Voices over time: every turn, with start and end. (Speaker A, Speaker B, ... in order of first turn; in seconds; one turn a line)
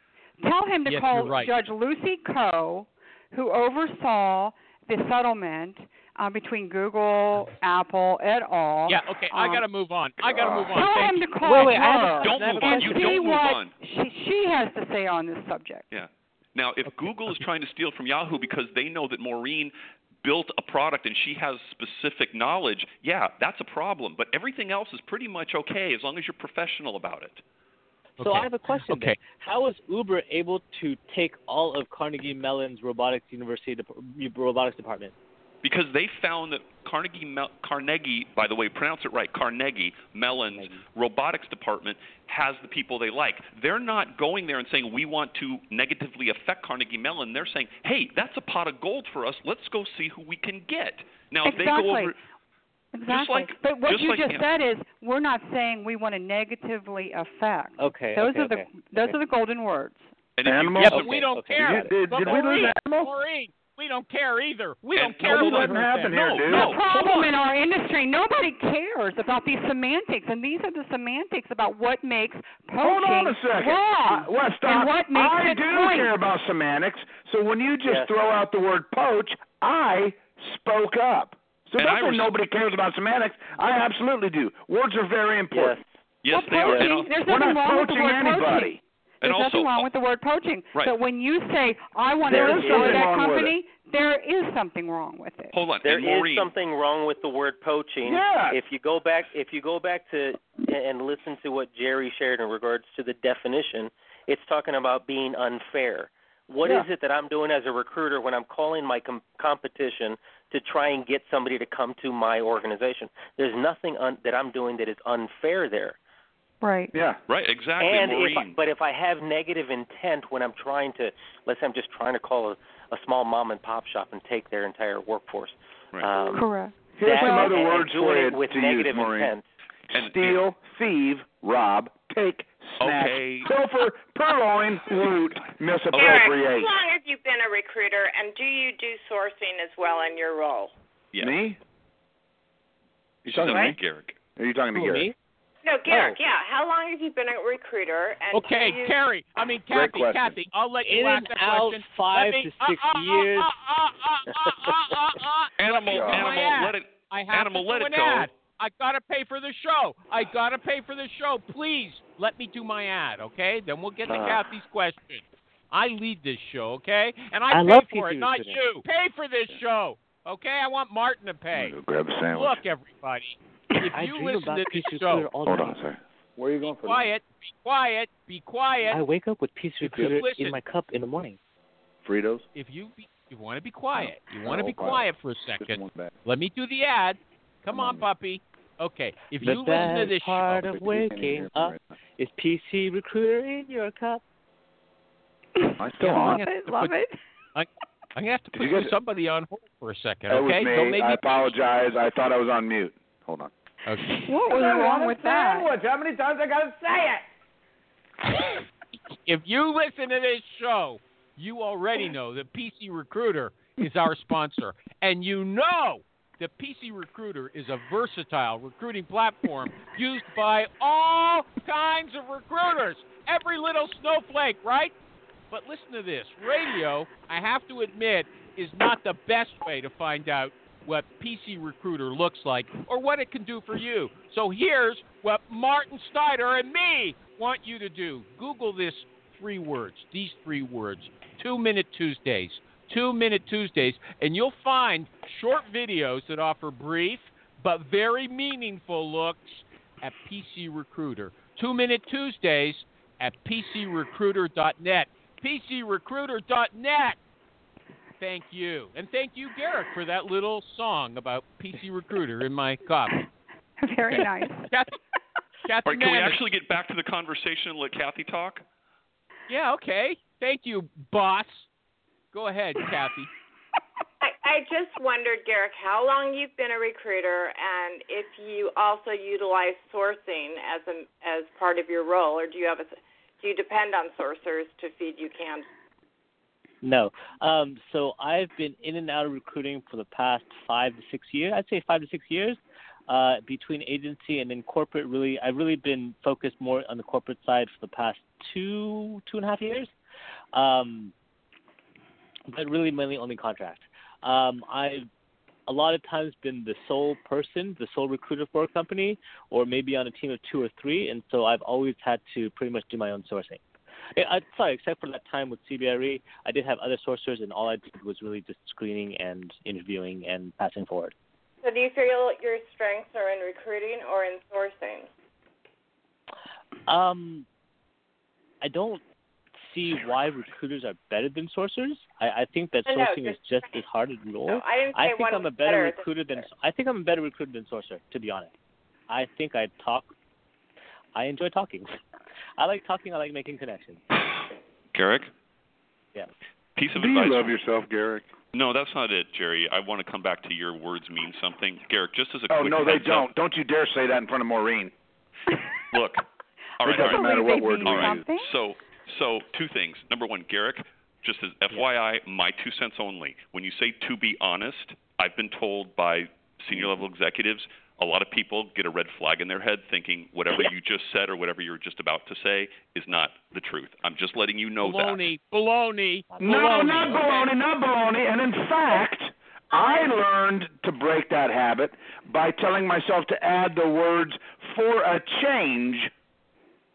Speaker A: 0.4-9.6
Speaker B: 0.8-1.5
Speaker B: 8.9-12.2
Speaker C: 10.2-10.8
Speaker A: 10.7-15.8
Speaker D: 11.4-13.2
Speaker E: 11.7-13.7
Speaker E: 15.9-27.4
Speaker B: 28.2-29.2
Speaker D: 28.2-35.1
Speaker E: 35.6-52.2
Speaker D: 40.5-40.8
Speaker A: 51.4-52.1
Speaker A: 52.9-60.1
Speaker E: 53.1-54.5
Speaker D: 57.8-59.1
Speaker E: 60.4-61.3
Speaker C: 60.4-63.1
Speaker B: 60.8-66.2
Speaker D: 60.9-61.9
Speaker E: 64.9-67.3
Speaker C: 65.2-66.8
Speaker A: 66.5-76.1
Speaker C: 72.8-85.8
Speaker F: 77.8-78.1
Speaker E: 81.8-82.3
Speaker F: 85.5-85.8
Speaker E: 86.2-87.2
Speaker A: 86.3-95.5
Speaker F: 86.6-86.9
Speaker C: 87.1-88.8
Speaker E: 89.2-89.9
Speaker F: 92.2-93.1
Speaker C: 92.2-93.5
Speaker E: 95.5-96.5
Speaker F: 95.8-116.0
Speaker C: 98.0-98.6
Speaker A: 116.6-116.9
Speaker C: 116.9-117.2
Speaker E: 117.3-118.6
Speaker F: 117.8-126.5
Speaker E: 125.9-126.2
Speaker A: 126.3-127.7
Speaker C: 127.0-129.3
Speaker F: 127.0-129.4
Speaker C: 129.9-136.7
Speaker E: 129.9-130.4
Speaker E: 132.8-133.5
Speaker E: 135.9-136.2
Speaker G: 135.9-140.7
Speaker E: 141.1-141.4
Speaker C: 141.2-141.6
Speaker C: 143.2-143.8
Speaker E: 143.2-144.2
Speaker C: 144.3-145.1
Speaker D: 144.7-145.1
Speaker G: 145.6-148.9
Speaker D: 145.9-146.2
Speaker B: 148.3-171.8
Speaker C: 149.7-150.3
Speaker D: 150.8-153.5
Speaker E: 155.6-158.3
Speaker C: 155.8-156.3
Speaker D: 167.5-168.6
Speaker C: 171.5-172.6
Speaker B: 172.3-175.3
Speaker D: 173.9-175.8
Speaker C: 175.4-177.1
Speaker B: 176.6-179.0
Speaker D: 178.9-181.4
Speaker B: 179.8-180.6
Speaker C: 182.0-182.4
Speaker B: 182.5-190.7
Speaker C: 183.9-185.1
Speaker C: 185.6-186.1
Speaker C: 187.7-188.1
Speaker D: 189.4-194.2
Speaker C: 190.5-191.8
Speaker A: 195.6-197.2
Speaker C: 195.8-196.4
Speaker B: 196.0-197.0
Speaker B: 197.5-201.6
Speaker C: 198.5-198.9
Speaker C: 200.3-203.5
Speaker B: 203.8-204.2
Speaker A: 204.2-205.8
Speaker C: 204.5-207.2
Speaker B: 209.1-224.9
Speaker B: 225.5-257.2
Speaker B: 258.2-263.2
Speaker A: 263.8-264.7
Speaker B: 264.1-265.0
Speaker B: 265.6-266.4
Speaker E: 265.8-268.6
Speaker B: 269.5-271.7
Speaker B: 272.3-273.3
Speaker G: 274.2-285.7
Speaker D: 286.8-299.9
Speaker D: 300.5-301.1
Speaker D: 302.5-305.1
Speaker D: 305.7-313.6
Speaker D: 314.1-321.1
Speaker G: 321.6-325.1
Speaker D: 326.9-327.4
Speaker D: 328.6-329.0
Speaker D: 329.6-338.5
Speaker G: 332.8-333.4
Speaker G: 334.5-336.4
Speaker D: 339.1-340.1
Speaker D: 341.1-341.9
Speaker D: 342.6-344.0
Speaker E: 344.9-345.3
Speaker E: 346.8-347.5
Speaker C: 346.9-348.2
Speaker E: 348.5-353.3
Speaker C: 352.5-354.9
Speaker E: 355.9-356.2
Speaker E: 356.8-375.2
Speaker A: 356.8-358.5
Speaker C: 356.8-358.2
Speaker B: 374.8-377.4
Speaker D: 376.3-377.4
Speaker C: 376.4-386.1
Speaker G: 379.7-380.1